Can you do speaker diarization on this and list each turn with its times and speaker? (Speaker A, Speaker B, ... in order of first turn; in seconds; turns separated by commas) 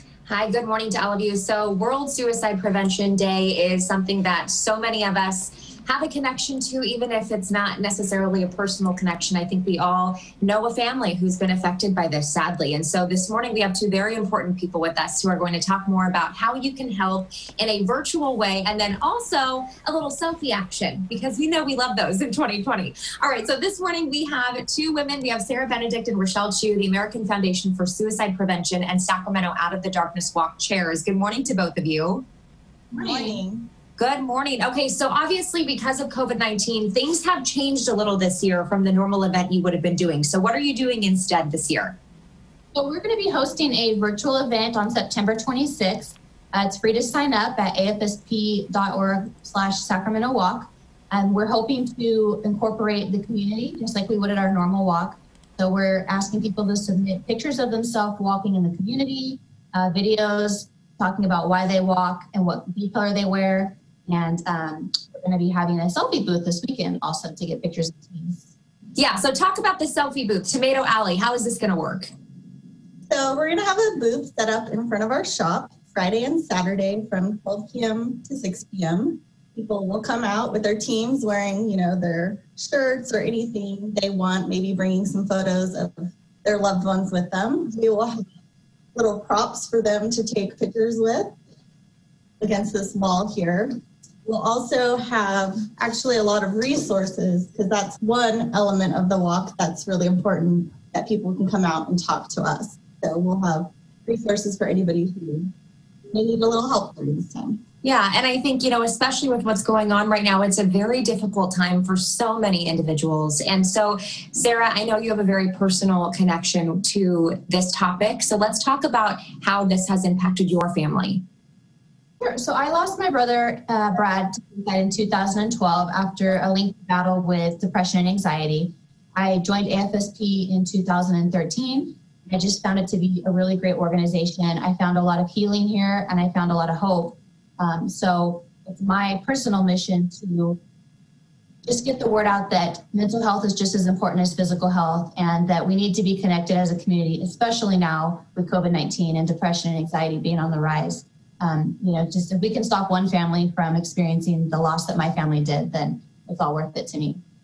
Speaker A: 0.2-32.3, Speaker B: 32.9-33.7, Speaker C: 33.0-33.4, Speaker A: 34.0-42.0, Speaker C: 42.7-68.5, Speaker A: 69.0-72.1, Speaker B: 73.1-88.2, Speaker B: 89.0-91.3, Speaker B: 92.4-105.5, Speaker B: 106.1-107.6, Speaker A: 107.8-121.2, Speaker C: 122.2-140.6, Speaker C: 141.7-157.2